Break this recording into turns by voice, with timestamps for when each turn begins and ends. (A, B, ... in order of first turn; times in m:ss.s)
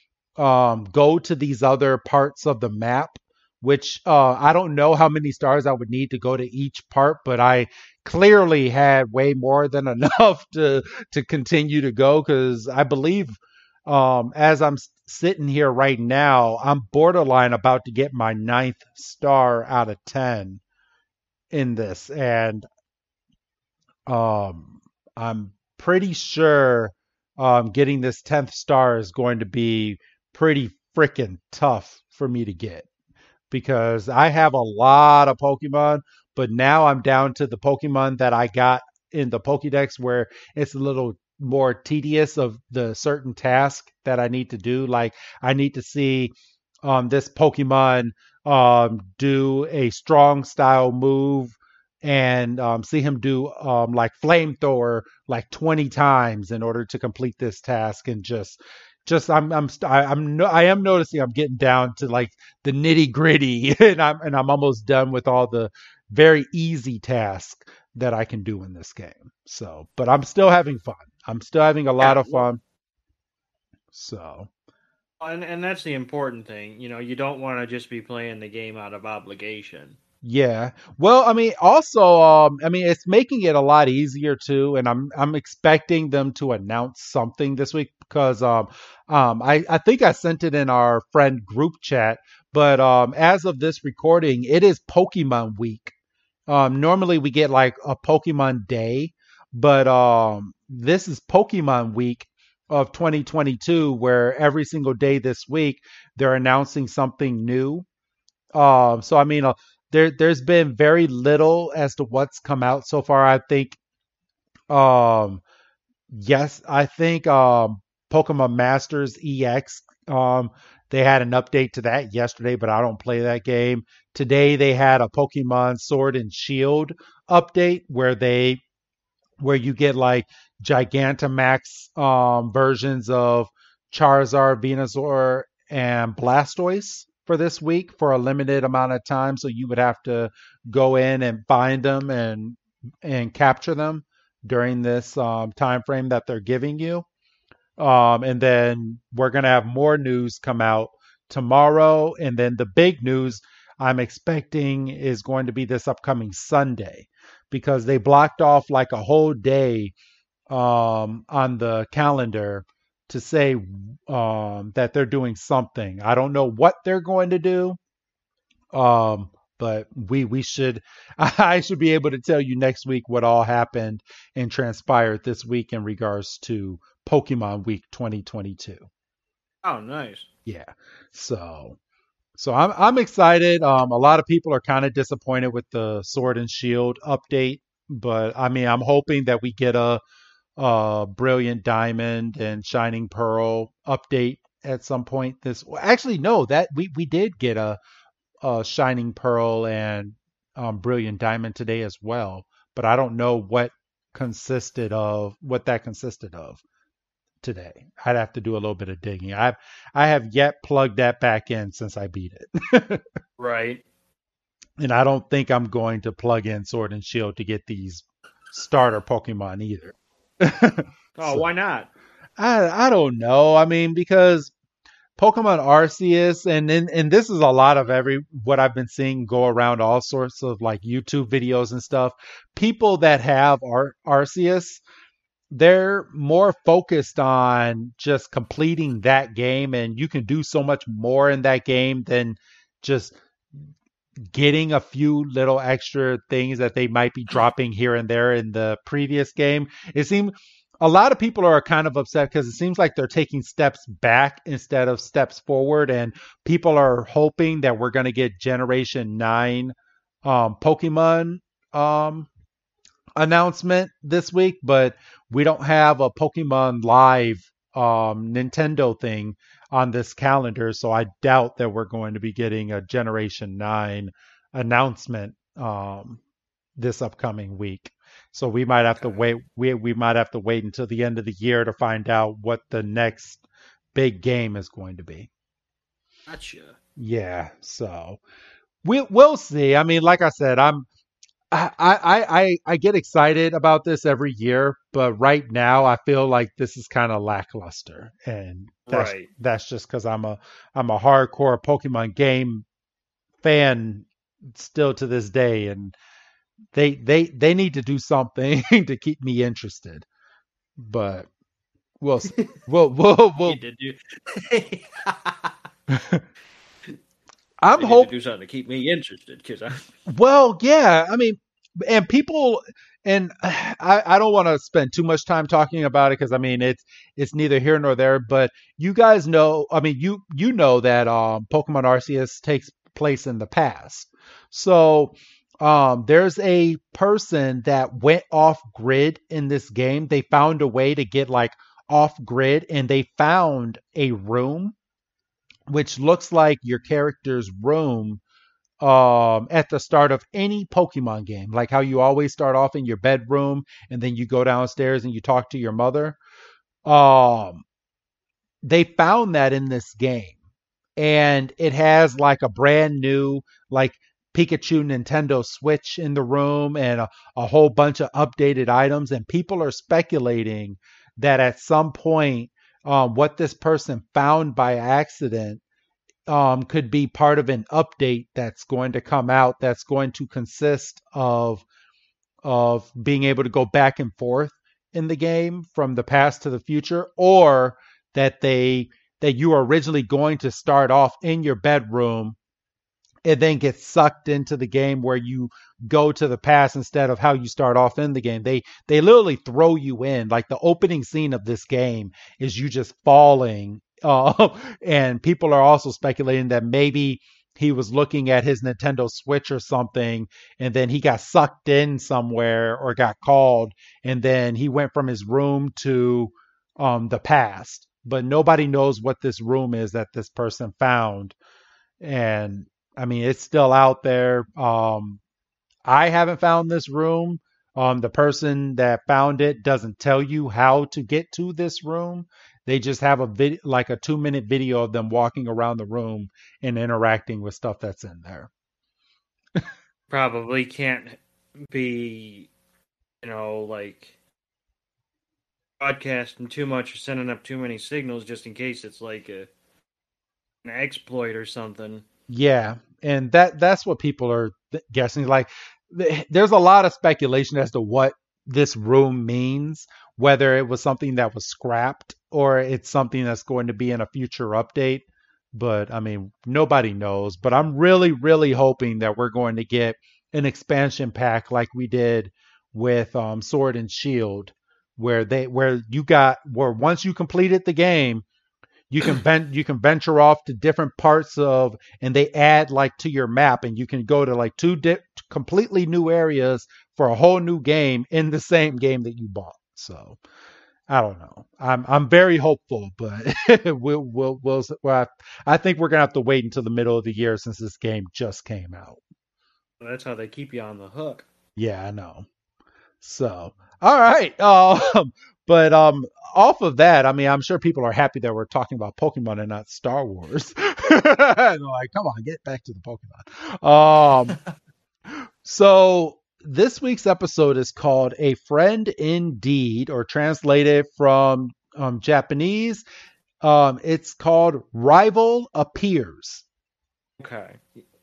0:00.4-0:20.6 A
0:21.5-0:22.7 A
0:24.1-0:32.9 A
0:33.5-0:46.3 A
0:46.8-1:12.6 A
1:12.0-1:12.5 B
1:13.9-1:14.5 A
1:15.2-1:20.0 B
1:20.2-1:35.9 A
1:36.5-1:47.9 A
1:48.5-1:53.8 A
1:54.7-1:55.4 A
1:56.1-2:08.6 A
2:09.4-2:27.1 A
2:27.8-2:39.9 A
2:40.5-2:47.8 A
2:48.7-2:58.9 A
2:59.6-3:00.3 B
3:00.5-3:01.8 A
3:02.4-3:10.0 A
3:10.6-3:17.8 A
3:18.4-3:26.6 A
3:27.4-3:33.0 A
3:33.4-3:33.8 B
3:34.8-3:41.5 A
3:41.2-3:41.9 B
3:42.4-3:44.5 A
3:45.2-3:54.8 A
3:55.5-4:03.2 A
4:04.3-4:19.7 A
4:20.2-4:22.3 A
4:23.2-4:36.2 A
4:36.8-4:43.4 A
4:39.0-4:39.3 B
4:44.0-4:45.3 A
4:46.3-4:46.8 B
4:47.0-4:48.2 A
4:48.8-4:50.9 A
4:51.5-5:02.6 A
4:58.9-4:59.3 B
5:03.4-5:06.0 A
5:06.7-5:10.1 A
5:10.8-5:11.3 A
5:12.0-5:13.6 A
5:13.4-5:15.5 B
5:15.9-5:16.2 A
5:17.6-5:18.1 A
5:17.8-5:19.8 B
5:20.1-5:44.8 A
5:45.7-5:48.2 A
5:48.8-5:56.2 A
5:56.9-5:57.6 A
5:58.6-6:00.4 A
6:01.0-6:15.6 A
6:16.3-6:21.7 A
6:22.4-6:32.4 A
6:33.2-7:01.4 A
7:02.0-7:05.2 A
7:05.9-7:18.5 A
7:20.1-7:22.5 B
7:23.2-7:24.2 B
7:25.8-7:29.5 B
7:30.6-7:32.0 B
7:32.3-7:58.2 A
7:58.9-8:10.2 A
8:10.9-8:19.0 A
8:19.8-8:21.3 B
8:21.6-8:22.3 A
8:23.0-8:34.4 A
8:35.1-8:42.8 A
8:43.4-8:46.4 A
8:47.2-8:47.8 B